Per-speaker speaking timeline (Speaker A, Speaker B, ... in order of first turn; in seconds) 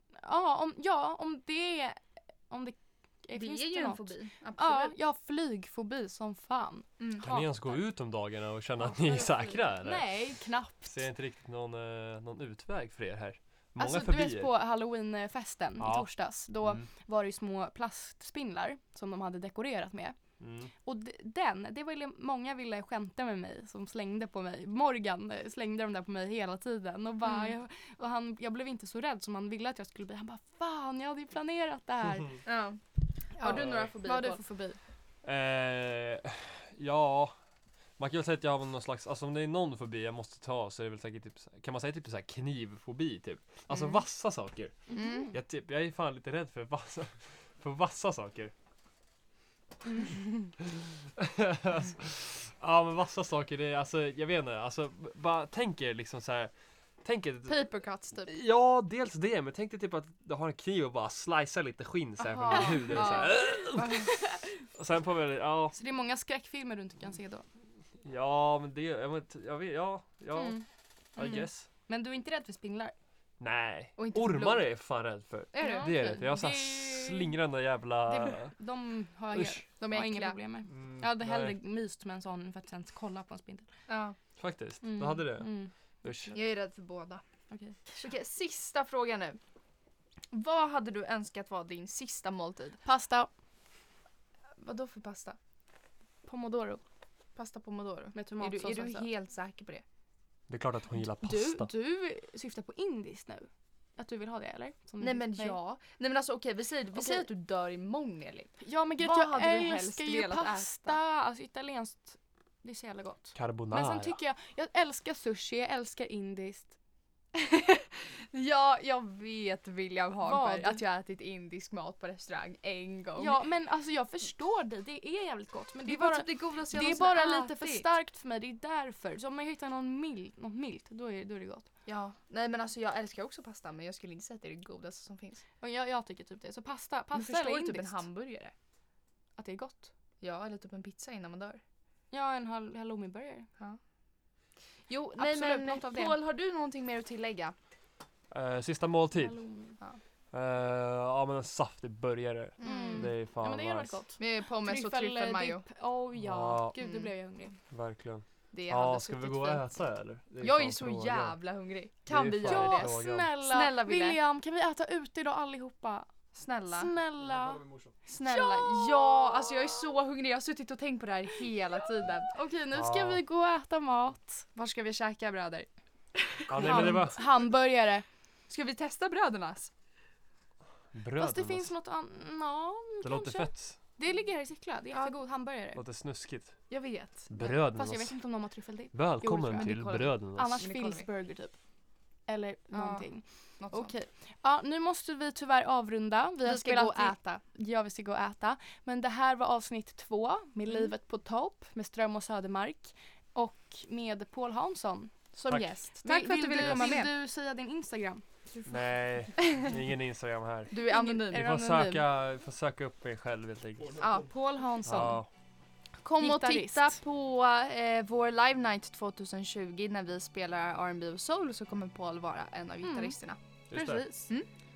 Speaker A: 0.2-7.8, 8.9-11.1, 13.8-20.1, 20.8-32.5, 33.3-34.8, 44.9-45.3, 62.5-63.3, 64.0-64.5, 65.8-67.4, 70.3-70.6, 71.9-72.9, 75.6-77.3, 78.1-83.7, 84.8-85.7, 87.5-88.1, 92.8-93.3, 96.2-96.8, 98.1-99.1, 101.2-105.6, 106.9-107.3, 108.6-116.7, 120.2-120.8, 123.2-131.7, 135.6-138.0, 139.4-139.9, 142.1-143.5, 145.2-146.2, 149.1-149.8, 152.6-157.6, 162.4-166.1, 166.7-167.7, 168.2-169.5, 172.3-174.4, 176.5-178.0, 181.2-185.8, 187.4-191.5, 192.3-205.3, 206.0-208.2, 210.8-212.0, 214.1-215.2, 216.2-217.0, 222.8-223.1, 223.7-224.3
Speaker B: 3.3-4.9, 7.0-7.2, 27.2-27.5, 32.4-32.8, 33.3-34.4, 43.7-44.0, 44.9-45.3, 57.5-58.3, 62.2-64.1, 71.2-71.4, 74.0-74.7, 75.5-75.9, 79.8-80.4, 83.9-84.2, 86.3-87.2, 87.9-89.4, 90.3-92.8, 94.6-95.4, 97.3-99.8, 105.0-111.0, 117.3-123.4, 125.8-127.9, 131.8-135.4, 137.1-138.5, 140.2-141.6, 144.9-147.5, 152.6-153.1, 154.2-155.6, 156.8-157.1, 158.5-159.6, 160.4-164.2, 166.3-166.9, 168.1-172.3, 174.5-175.7, 176.3-177.3, 178.5-179.7, 186.7-187.6, 189.5-191.1, 192.7-193.9, 196.4-197.4, 200.7-200.9, 205.3-207.1, 210.7-211.5, 214.0-214.3, 216.0-223.4
Speaker C: 7.2-10.1, 10.9-14.5, 15.8-16.1, 20.4-20.7, 33.5-33.9, 35.2-37.3, 38.0-48.5, 50.6-57.7, 58.2-64.1, 64.7-65.8, 68.0-70.6, 71.2-71.7, 73.4-78.5, 79.3-79.6, 80.7-81.5, 84.4-85.5, 86.0-86.3, 100.5-101.7, 113.3-114.2, 148.3-149.4, 150.3-154.0, 156.2-156.7, 157.7-161.4, 162.1-163.3, 172.7-173.2, 176.5-177.2, 180.9-181.7, 183.0-183.8, 185.7-186.6, 187.3-188.2, 188.9-190.6, 206.6-206.9, 208.7-210.7, 211.3-214.1, 214.8-215.3, 223.7-224.1